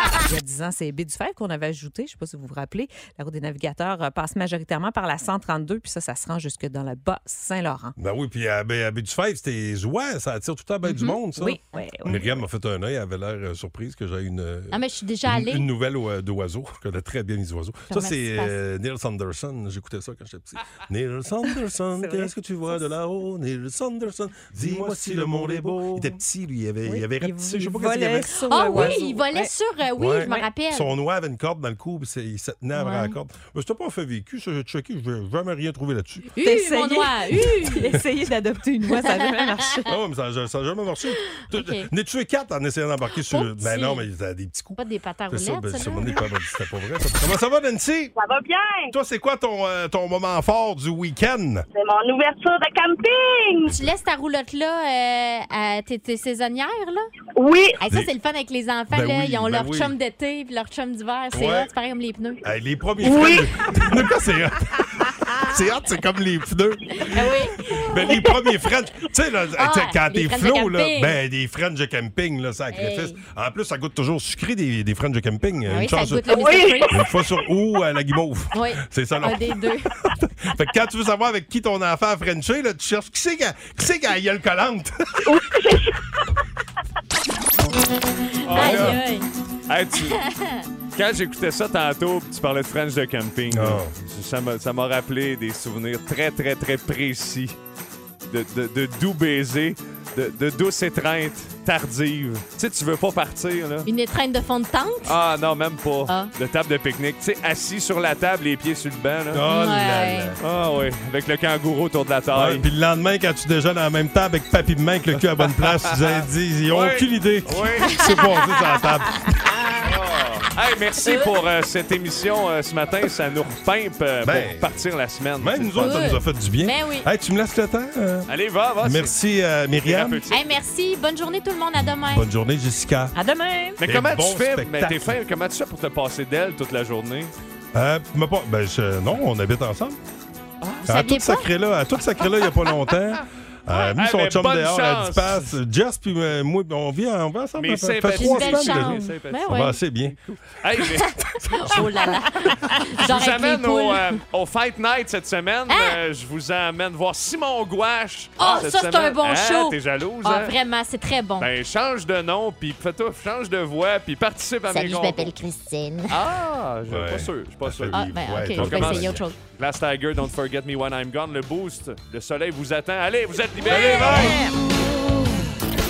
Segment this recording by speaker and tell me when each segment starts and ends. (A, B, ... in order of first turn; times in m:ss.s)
0:00.1-0:07.9 A
0:08.0-0:29.0 B
0:10.8-0:12.2 A
0:14.7-0:15.6 C
0:17.9-0:18.5 C
0:24.7-0:26.0 A
0:26.8-0:29.5 A
0:28.5-0:30.9 C
0:30.0-0:36.3 B
0:30.2-0:30.5 A
0:32.7-0:33.2 C
0:36.3-0:38.0 C
0:36.4-0:39.9 A
0:39.0-0:39.5 C
0:39.8-0:44.8 B
0:41.5-0:41.9 C
0:43.3-0:44.0 C
0:44.8-0:46.2 C
0:45.3-0:48.1 B
0:48.2-0:48.9 D
0:48.9-0:51.6 B
0:51.7-0:53.7 D
0:53.6-0:57.1 C
0:53.7-0:53.9 B
0:57.4-0:57.8 D
0:57.8-1:02.4 C
0:58.9-0:59.9 B
1:01.3-1:01.7 B
1:02.4-1:16.3 B
1:03.0-1:03.5 D
1:07.0-1:07.9 C
1:09.6-1:11.2 C
1:12.7-1:13.2 C
1:15.7-1:17.0 C
1:16.4-1:16.9 D
1:16.9-1:25.3 B
1:18.5-1:19.9 C
1:25.3-1:26.0 D
1:28.4-1:29.0 E
1:28.4-1:29.3 C
1:28.5-1:29.0 B
1:29.7-1:30.2 E
1:30.1-1:30.6 C
1:30.9-1:37.6 E
1:33.5-1:33.9 B
1:38.3-1:43.9 E
1:43.8-1:45.1 C
1:45.0-1:49.4 E
1:49.3-1:50.4 B
1:49.5-1:50.4 C
1:50.4-1:52.6 E
1:52.3-1:59.3 B
1:55.4-1:58.0 E
1:57.8-1:58.2 C
1:59.8-2:06.1 E
2:01.0-2:01.3 C
2:04.2-2:10.2 B
2:05.7-2:07.1 C
2:08.3-2:09.2 E
2:09.7-2:10.6 E
2:10.3-2:12.3 C
2:11.8-2:13.1 B
2:13.1-2:13.8 A
2:13.8-2:17.3 E
2:13.8-2:15.2 B
2:17.7-2:20.0 B
2:20.8-2:30.2 B
2:20.9-2:21.5 C
2:23.7-2:24.0 C
2:24.0-2:25.5 E
2:27.6-2:31.1 E
2:28.1-2:29.8 C
2:31.1-2:32.1 B
2:31.5-2:34.2 C
2:33.0-2:40.5 E
2:35.7-2:36.0 C
2:38.4-2:41.5 C
2:41.4-2:45.3 E
2:44.7-2:46.1 C
2:46.1-2:54.2 E
2:46.9-2:49.2 B
2:47.9-2:49.4 C
2:53.6-2:54.4 B
2:53.7-2:54.4 C